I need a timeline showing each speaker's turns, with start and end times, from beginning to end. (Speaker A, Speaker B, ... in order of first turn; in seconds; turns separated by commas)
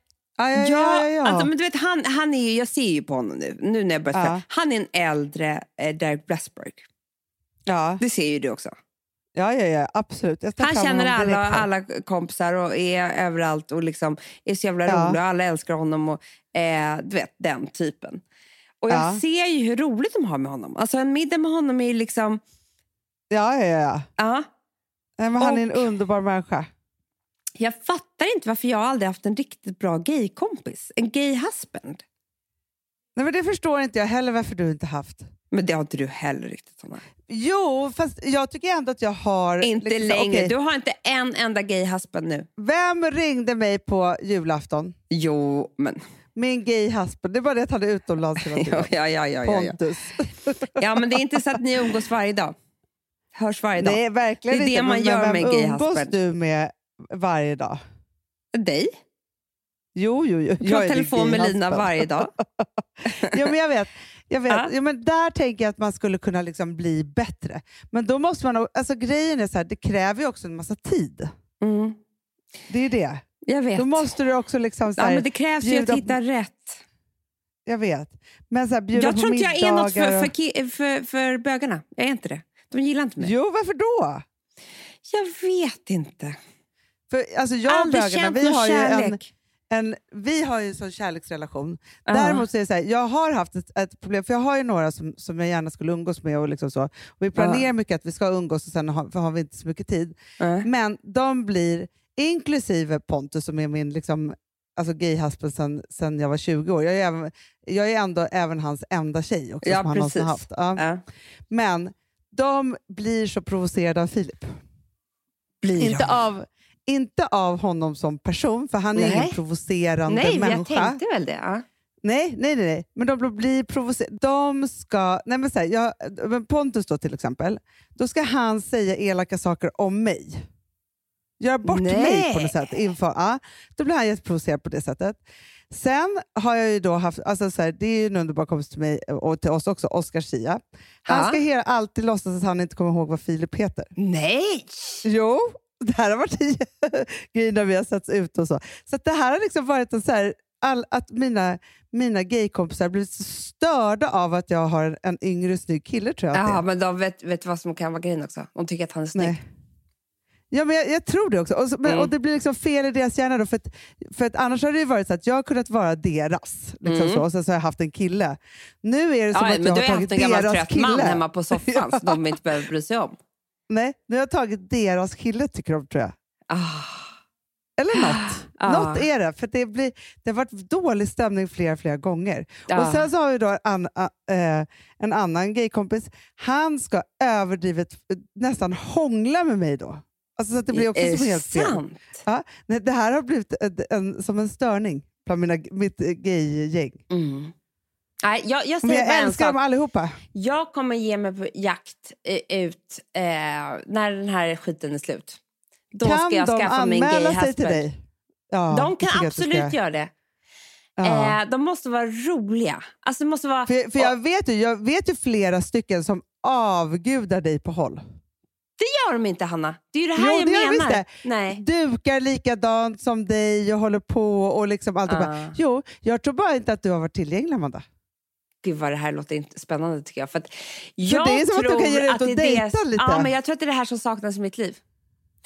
Speaker A: 0.4-1.5, Speaker B: 0.5-6.8, Speaker A: 4.1-4.4, Speaker A: 7.7-8.0, Speaker B: 8.0-8.7, Speaker A: 9.3-11.7, Speaker B: 10.6-18.2, Speaker A: 14.9-15.2, Speaker B: 18.8-22.4, Speaker A: 18.9-19.2, Speaker A: 23.3-24.1, Speaker B: 24.2-24.5, Speaker A: 25.2-26.7, Speaker B: 25.4-25.9, Speaker B: 27.6-32.0, Speaker A: 33.2-35.3, Speaker B: 35.5-37.0, Speaker A: 37.3-40.5, Speaker B: 39.6-42.5, Speaker A: 42.6-45.0, Speaker B: 45.1-46.0, Speaker A: 46.4-48.9, Speaker B: 48.4-49.8, Speaker A: 49.4-51.1, Speaker B: 50.8-52.5, Speaker B: 53.3-56.1, Speaker A: 53.8-57.8, Speaker B: 58.5-58.9, Speaker A: 60.0-62.7, Speaker B: 60.6-62.3, Speaker B: 63.0-63.4, Speaker A: 63.3-71.3, Speaker B: 71.6-72.0, Speaker A: 72.7-76.2, Speaker B: 73.5-74.1, Speaker B: 74.9-76.8, Speaker A: 77.7-80.3, Speaker B: 79.0-83.3, Speaker A: 83.2-84.2, Speaker B: 85.1-86.4, Speaker A: 87.1-110.8, Speaker B: 87.7-89.3, Speaker B: 92.1-92.4, Speaker B: 97.4-97.7, Speaker B: 100.4-100.7, Speaker B: 109.6-111.0, Speaker A: 111.5-114.5, Speaker B: 115.6-116.2, Speaker A: 115.8-121.0, Speaker B: 118.9-119.4, Speaker B: 120.1-121.6, Speaker A: 122.0-130.4, Speaker A: 131.4-143.9, Speaker B: 131.7-132.6, Speaker B: 141.1-141.4, Speaker B: 144.0-145.1, Speaker A: 145.1-156.6, Speaker B: 156.3-159.4, Speaker A: 159.1-159.4, Speaker A: 160.5-172.2, Speaker B: 161.9-162.1, Speaker B: 166.8-167.2, Speaker B: 169.3-173.2, Speaker A: 173.7-176.1, Speaker B: 176.5-177.2, Speaker A: 177.8-197.0, Speaker B: 177.9-179.1, Speaker B: 182.7-183.1, Speaker B: 190.7-192.2, Speaker B: 197.1-197.5, Speaker B: 198.2-199.6, Speaker A: 198.8-200.1, Speaker B: 200.3-205.4, Speaker B: 205.9-207.8, Speaker A: 206.0-208.0, Speaker A: 208.5-209.8, Speaker B: 208.7-210.1, Speaker A: 211.0-211.4, Speaker B: 211.0-214.1, Speaker A: 213.7-218.0, Speaker B: 218.8-221.6, Speaker A: 220.2-227.8, Speaker B: 225.1-225.6, Speaker B: 228.6-234.8, Speaker A: 231.0-233.3